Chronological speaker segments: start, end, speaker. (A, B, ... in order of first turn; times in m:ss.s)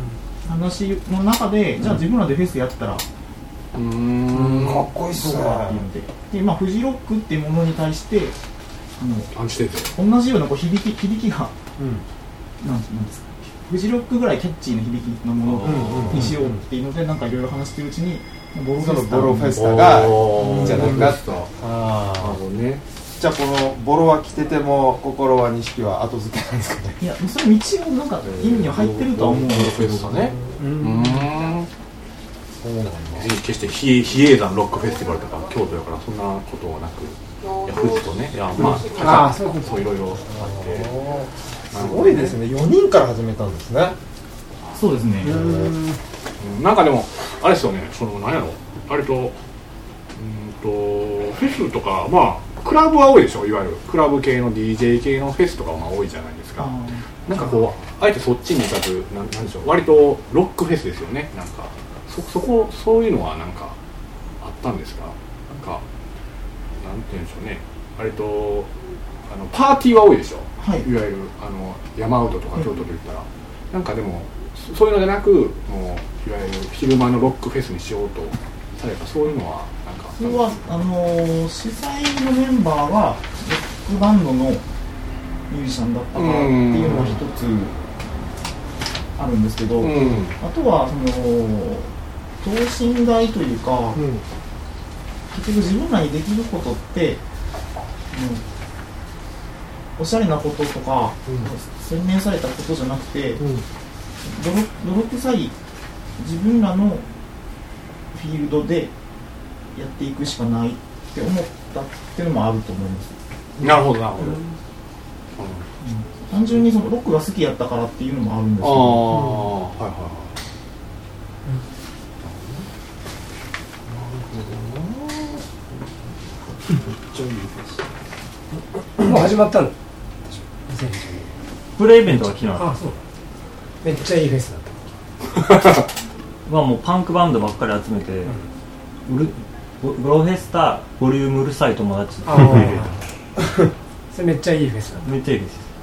0:00.4-0:03.1 A
0:03.7-0:04.9 B
0:04.3-0:05.8 C
0:05.1-0:08.4 A
0:09.0-0:09.3 A
0:09.3-0:09.9 B
0:09.9-0:11.6 A
0:11.8-0:12.0 D
0:12.6-0:19.8 A
0:15.4-0:16.3 B
0:15.7-0:16.5 D
0:15.9-0:16.2 C
0:18.8-0:22.4 C
0:19.5-0:21.5 B
0:20.4-0:21.0 A
0:20.5-0:21.1 D
0:22.2-0:22.8 B
0:23.2-0:27.0 C
0:27.0-0:30.4 A
0:28.2-0:31.7 B
0:30.6-0:31.4 D
0:32.6-0:33.3 C
0:33.2-0:41.0 B
0:38.6-0:40.1 D
0:40.4-0:44.0 C
0:41.7-0:42.4 B
0:44.7-0:45.6 A
0:45.3-0:46.0 D
0:45.3-0:45.7 C
0:46.4-0:49.4 B
0:50.2-1:03.8 B
0:56.6-0:57.0 A
1:04.4-1:05.8 B
1:06.8-1:08.7 B
1:09.3-1:20.5 B
1:10.6-1:10.9 A
1:20.1-1:24.6 A
1:25.5-1:27.8 A
1:26.2-1:27.2 B
1:29.2-1:34.0 A
1:29.8-1:30.4 B
1:34.0-1:34.2 D
1:35.3-1:37.2 A
1:38.1-1:38.4 A
1:40.0-1:43.5 A
1:43.4-1:43.6 D
1:44.2-1:45.6 A
1:46.2-1:47.0 A
1:48.1-1:48.9 A
1:49.7-1:53.2 A
1:53.6-1:54.4 B
1:55.4-1:55.7 B
1:55.8-1:59.2 A
1:58.6-2:00.4 B
1:59.1-1:59.5 D
2:02.2-2:02.6 B
2:03.9-2:05.3 B
2:06.7-2:07.8 B
2:09.0-2:09.8 D
2:10.3-2:11.3 D
2:11.8-2:12.7 E
2:12.6-2:13.0 D
2:13.8-2:14.8 D
2:16.5-2:18.4 E
2:19.1-2:22.9 E
2:22.2-2:23.0 D
2:24.1-2:25.1 D
2:25.0-2:25.7 E